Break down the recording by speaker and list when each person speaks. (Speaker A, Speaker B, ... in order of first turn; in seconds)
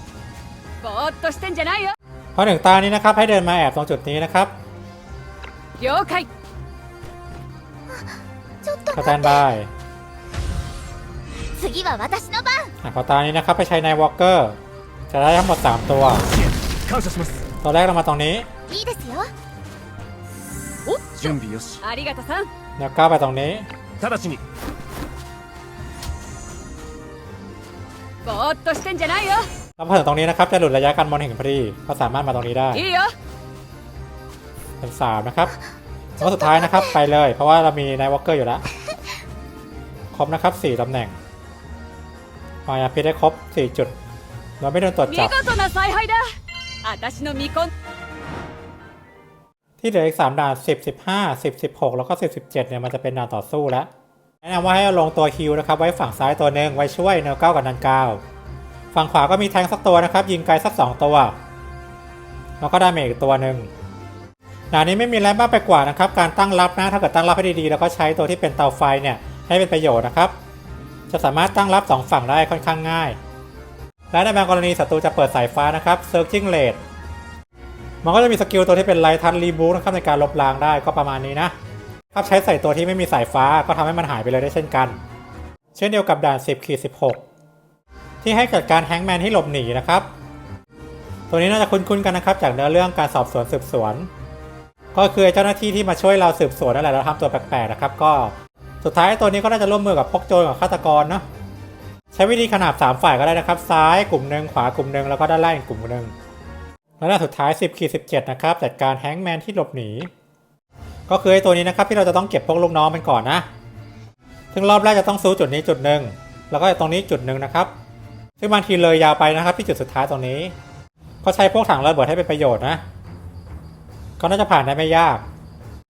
Speaker A: 0.8-1.9, 5.8-6.3, 20.9-22.5, 28.2-29.5, 32.7-33.1, 45.1-47.7
Speaker B: 2.4-4.5, 8.9-9.7, 12.8-14.6, 15.1-16.2, 17.6-18.5, 22.8-23.7, 29.8-32.8, 34.8-35.5, 36.2-38.6, 40.1-41.2, 42.6-44.0, 44.6-45.3, 49.8-53.9, 54.4-58.2, 58.9-61.4, 62.6-63.7, 64.7-70.3, 71.1-73.2, 74.1-76.8, 78.0-81.5, 82.1-85.0, 85.7-87.2, 88.2-90.1, 91.3-94.1, 94.9-101.2, 102.1-106.1, 107.0-110.1, 111.1-113.5, 114.5-117.7, 118.4-120.5, 121.2-122.8, 124.2-125.2
Speaker C: 8.6-9.4, 11.6-12.7, 18.7-19.3, 36.2-36.9
Speaker D: 16.2-17.4, 21.1-21.8, 24.0-24.4